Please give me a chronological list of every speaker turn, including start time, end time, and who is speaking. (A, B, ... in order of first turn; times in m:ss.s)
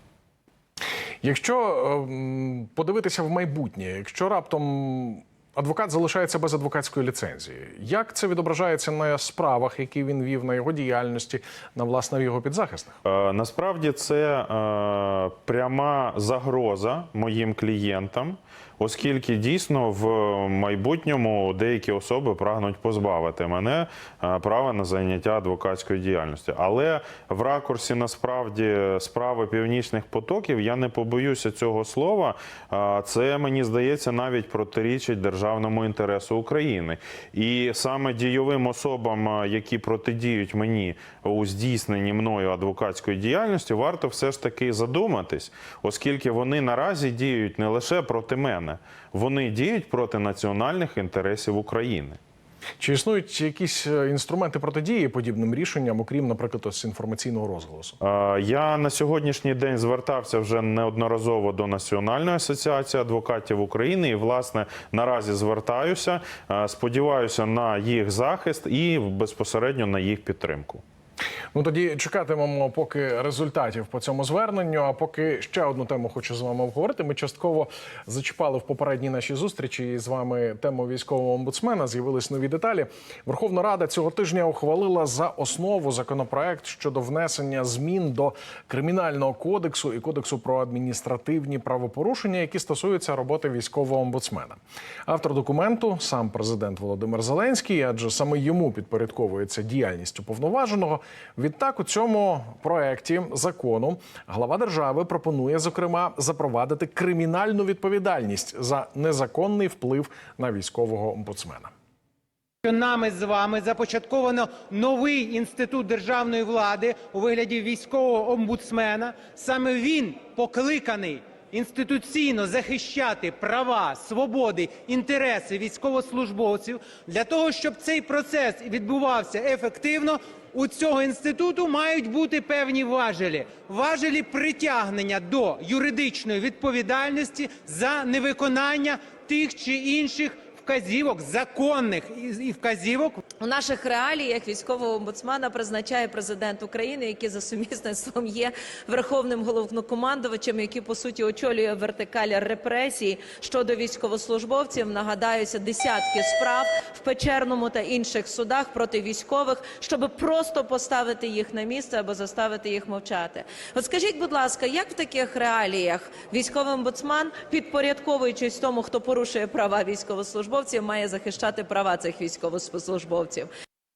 0:01.2-0:13.0 A
0:13.0-0:52.2 B
0:52.8-0:58.0 A
0:58.0-1:10.8 B
1:11.5-1:51.7 A
1:52.6-2:23.2 C
2:23.4-2:53.5 D